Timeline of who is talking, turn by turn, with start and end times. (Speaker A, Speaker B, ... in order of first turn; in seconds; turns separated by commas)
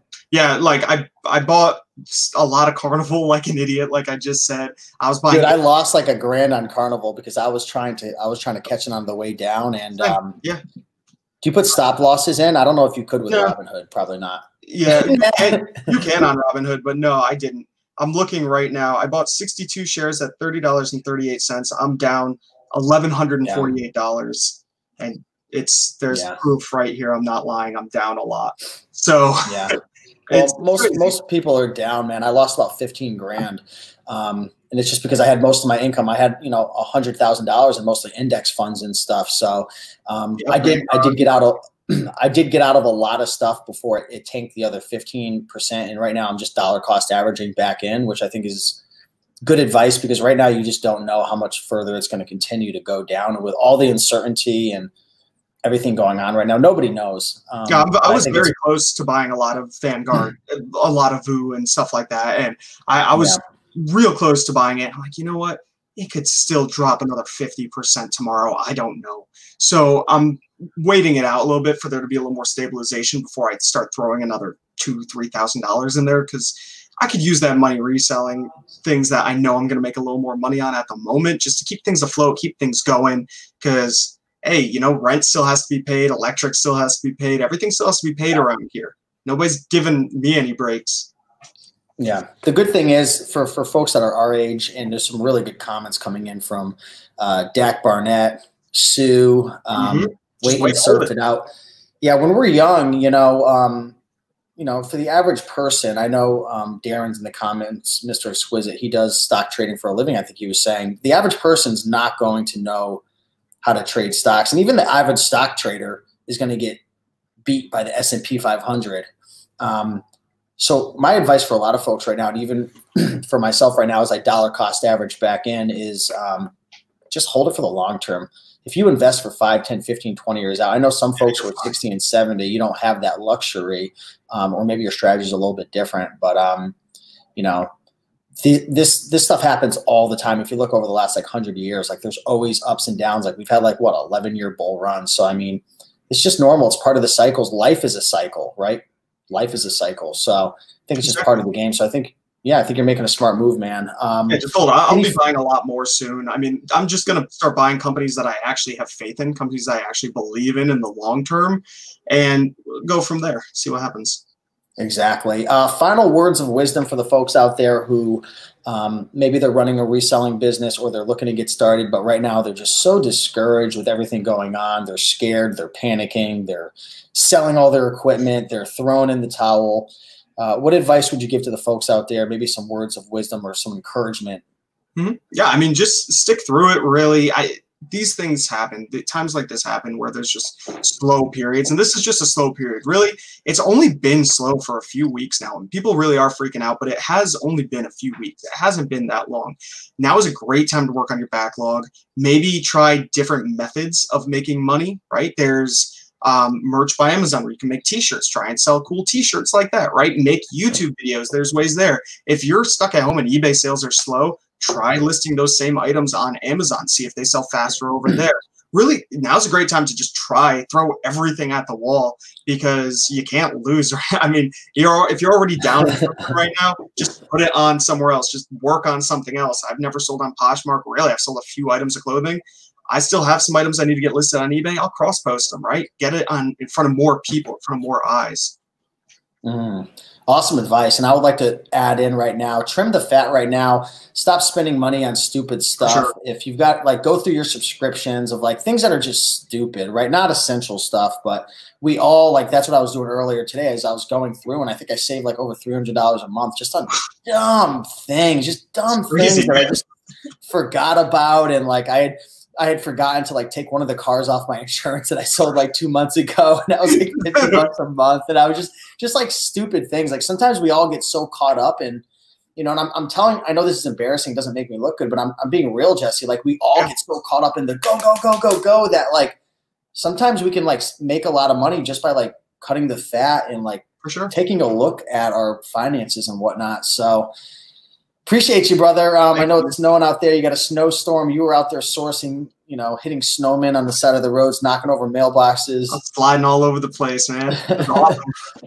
Speaker A: 0.3-5.6, Speaker B: 5.3-10.4, Speaker A: 10.0-10.6, Speaker B: 11.4-15.9, Speaker A: 13.3-13.5, Speaker A: 14.6-29.7, Speaker B: 23.4-23.7, Speaker B: 26.1-26.4, Speaker B: 29.4-29.8, Speaker A: 30.3-31.1, Speaker B: 30.3-48.8, Speaker A: 40.4-41.2, Speaker B: 49.4-54.9, Speaker B: 55.6-58.5, Speaker A: 57.7-91.1, Speaker B: 63.1-63.4, Speaker B: 92.0-101.5, Speaker A: 99.8-101.1, Speaker B: 102.0-104.0, Speaker B: 104.6-113.0, Speaker B: 113.6-116.8, Speaker B: 117.4-119.1, Speaker B: 119.6-120.0, Speaker B: 120.6-126.5, Speaker B: 127.1-136.8, Speaker A: 131.3-131.7, Speaker B: 137.3-137.7, Speaker B: 138.4-155.2, Speaker A: 151.0-151.3, Speaker A: 154.3-164.2, Speaker B: 164.8-184.4, Speaker A: 184.9-238.6, Speaker B: 239.4-259.8, Speaker A: 245.8-246.1, Speaker A: 259.1-259.8, Speaker B: 260.4-272.0, Speaker A: 267.3-267.6, Speaker B: 272.6-279.4, Speaker B: 279.9-287.3, Speaker A: 284.0-284.3, Speaker B: 288.2-296.0, Speaker A: 289.3-289.7, Speaker A: 295.9-298.4, Speaker B: 297.5-298.2